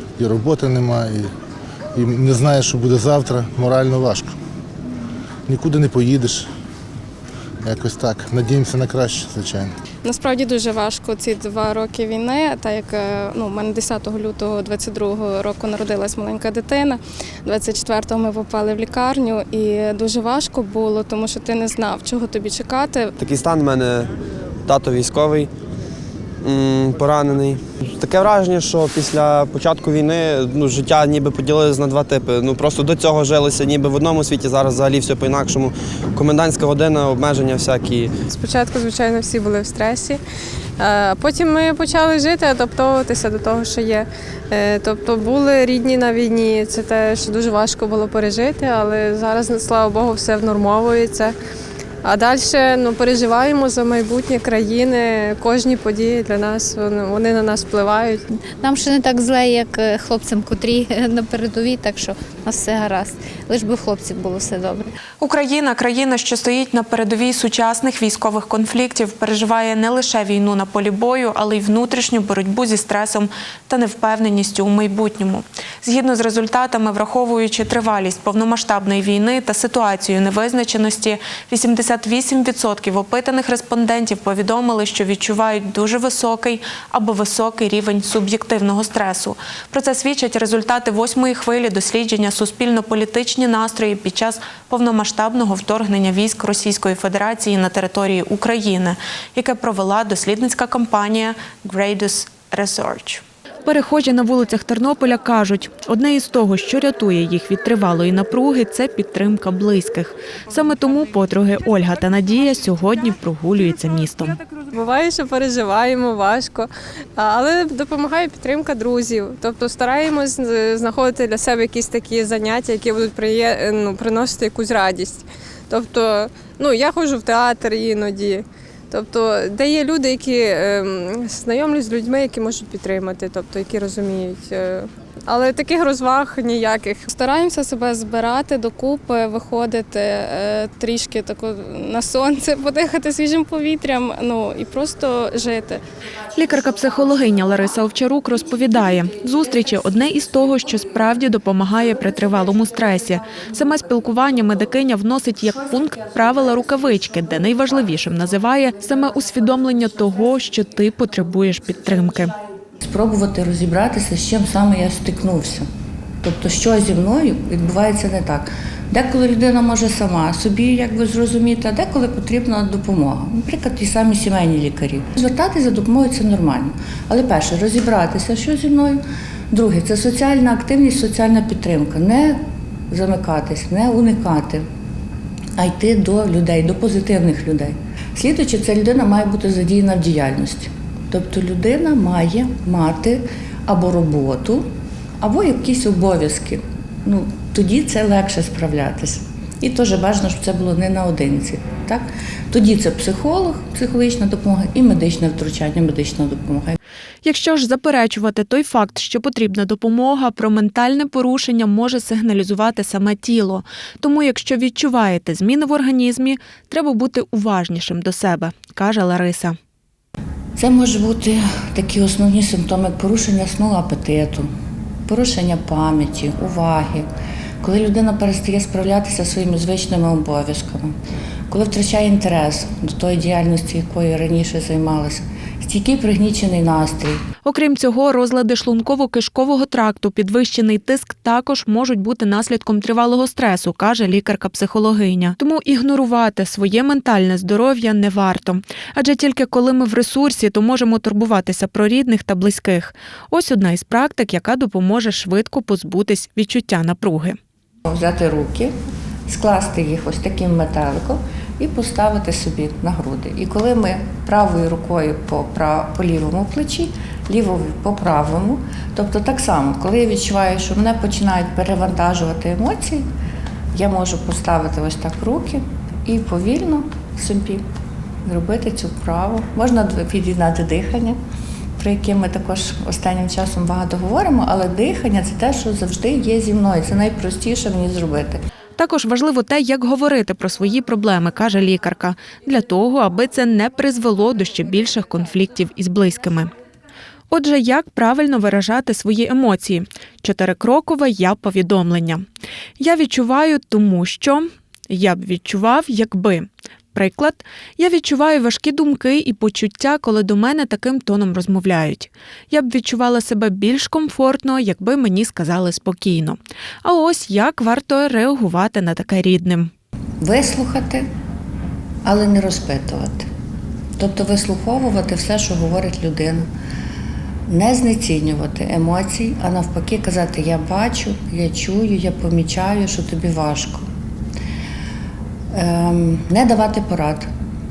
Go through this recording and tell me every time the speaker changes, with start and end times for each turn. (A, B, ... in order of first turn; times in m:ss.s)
0:00.2-0:01.3 A
0:02.0-0:04.4 A
0:05.5-0:06.5 A
0:07.6-0:09.7 A
0:10.0-0:23.2 B
0:23.2-0:24.1 C
0:24.7-0:25.5 C
0:26.4-0:38.1 C
0:38.3-0:40.2 D
0:40.8-0:51.4 D
0:52.0-0:58.2 D
0:58.3-1:05.0 E
1:05.2-1:54.4 F
1:54.7-2:17.1 D
2:17.1-2:25.8 B
2:26.4-2:42.4 F
2:42.8-2:45.7 G
2:46.2-3:04.6 G
3:05.6-3:14.6 G
3:15.2-3:26.8 G
3:27.2-3:39.6 F
3:40.6-3:44.5 G
3:45.1-3:47.1 G
3:47.6-3:50.9 G
3:51.5-3:57.2 G
3:57.4-4:17.4 F
4:17.9-4:18.7 G
4:19.3-4:33.0 G
4:33.7-4:37.6 G
4:38.2-4:41.2 G
4:41.8-4:48.4 G
4:48.8-4:56.5 F
4:57.3-5:02.2 F
5:02.8-5:19.7 F
5:20.2-5:21.1 G
5:22.0-5:23.3 G
5:24.0-5:26.5 G
5:27.5-5:33.9 G
5:35.5-5:37.3 G